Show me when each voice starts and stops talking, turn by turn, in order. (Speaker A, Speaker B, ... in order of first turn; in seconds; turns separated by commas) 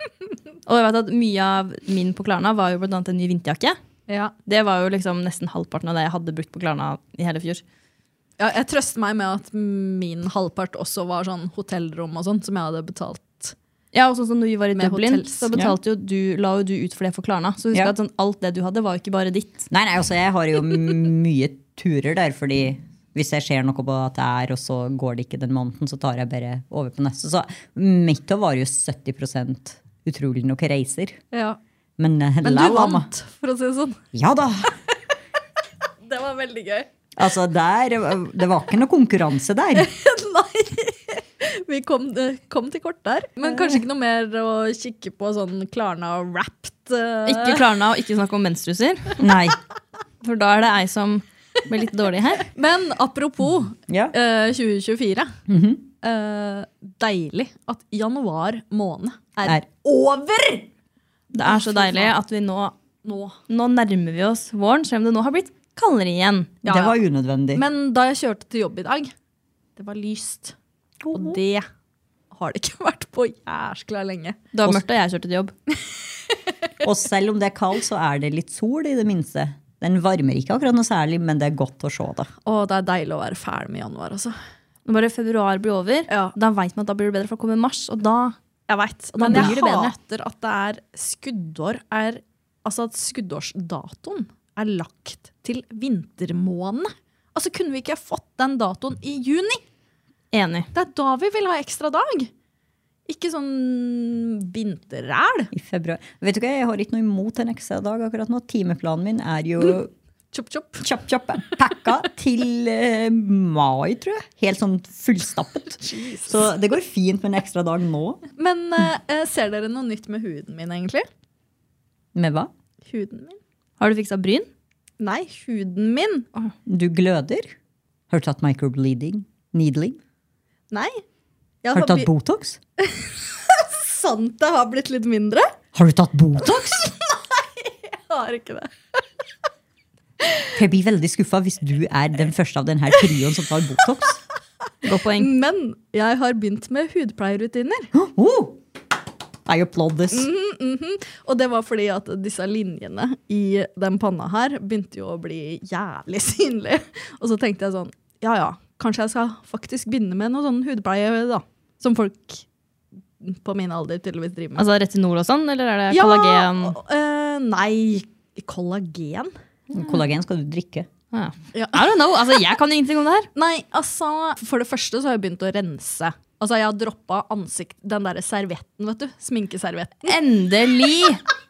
Speaker A: 0.7-3.8, Speaker B: 4.1-4.3, Speaker A: 4.5-7.6, Speaker B: 8.4-13.5, Speaker A: 13.9-19.7, Speaker B: 14.8-15.5, Speaker C: 19.7-31.2, Speaker B: 31.3-31.6, Speaker C: 32.0-33.1, Speaker B: 32.4-34.0, Speaker C: 34.1-34.7, Speaker B: 36.1-36.9, Speaker C: 37.2-39.9, Speaker B: 39.8-47.6, Speaker A: 47.2-49.2, Speaker C: 49.2-49.6, Speaker A: 50.2-52.5, Speaker B: 52.5-55.3, Speaker C: 53.9-54.1, Speaker C: 55.5-55.8, Speaker B: 56.0-60.7, Speaker A: 61.3-62.8, Speaker B: 61.4-62.1, Speaker B: 63.0-63.4, Speaker A: 63.5-66.6, Speaker C: 66.6-67.6, Speaker B: 66.6-67.0, Speaker B: 67.5-69.1, Speaker B: 69.8-70.5, Speaker C: 71.0-71.4, Speaker B: 71.1-71.7, Speaker B: 72.3-74.4, Speaker A: 74.5-75.5, Speaker C: 76.8-82.3, Speaker B: 82.4-84.3, Speaker A: 84.8-88.3, Speaker B: 88.7-99.6, Speaker A: 89.2-89.9, Speaker A: 100.3-100.7, Speaker B: 100.7-102.3, Speaker B: 103.1-105.5, Speaker C: 105.5-109.9, Speaker B: 110.3-110.8, Speaker C: 110.8-118.2, Speaker B: 115.8-116.3, Speaker B: 118.4-121.1, Speaker C: 122.1-122.5, Speaker B: 122.8-123.4, Speaker A: 123.8-124.5, Speaker B: 125.0-126.3, Speaker C: 126.7-127.5, Speaker C: 128.1-130.0, Speaker B: 130.7-131.0, Speaker B: 131.6-132.1, Speaker C: 131.7-132.6, Speaker B: 132.8-135.5, Speaker C: 135.7-136.9, Speaker B: 136.6-139.0, Speaker C: 140.5-144.2, Speaker A: 144.9-145.2, Speaker B: 145.1-147.9, Speaker C: 147.9-148.6, Speaker C: 149.4-150.3, Speaker B: 150.1-162.4, Speaker B: 163.2-164.6, Speaker A: 164.6-166.8, Speaker B: 165.9-169.3, Speaker C: 169.7-170.9, Speaker A: 171.1-173.3, Speaker B: 171.5-171.8, Speaker B: 173.3-180.2, Speaker A: 180.1-181.2